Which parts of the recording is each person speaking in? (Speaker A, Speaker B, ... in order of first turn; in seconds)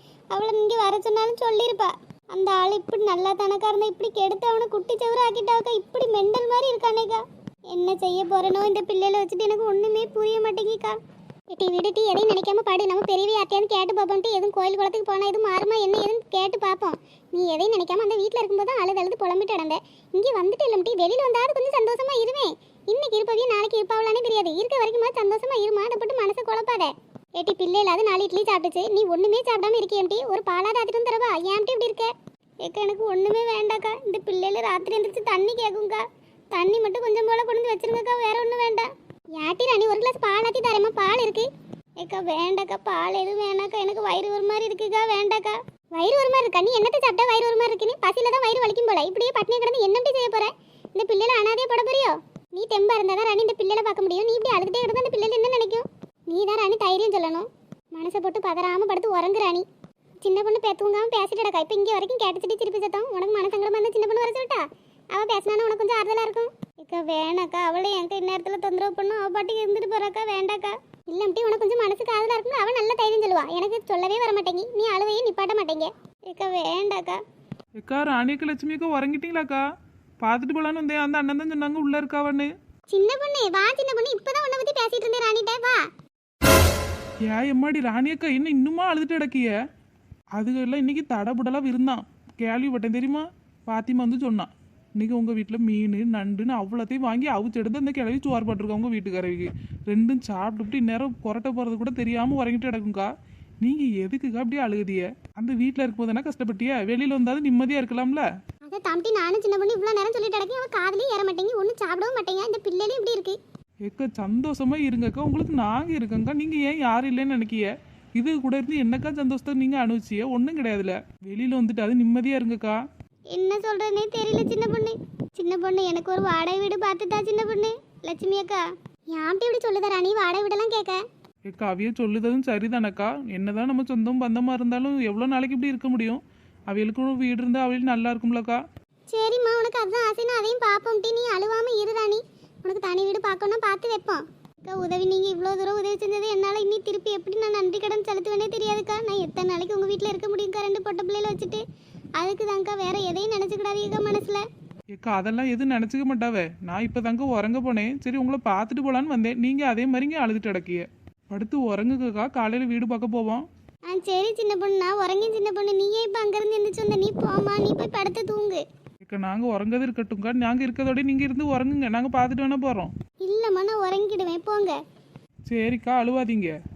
Speaker A: 0.3-10.9, 11.5-32.1, 32.6-36.0, 36.5-41.5, 42.0-59.6, 60.2-64.6, 65.1-77.2, 82.9-85.8, 108.7-113.4, 123.3-128.6, 129.1-131.0, 139.1-151.6, 152.2-154.4, 163.9-168.6, 173.2-174.8
Speaker B: 77.8-79.6, 80.2-82.5, 87.2-89.5, 90.3-103.1, 103.6-108.3, 113.8-122.8, 131.5-138.6, 154.9-163.4, 169.0-172.9, 175.5-176.5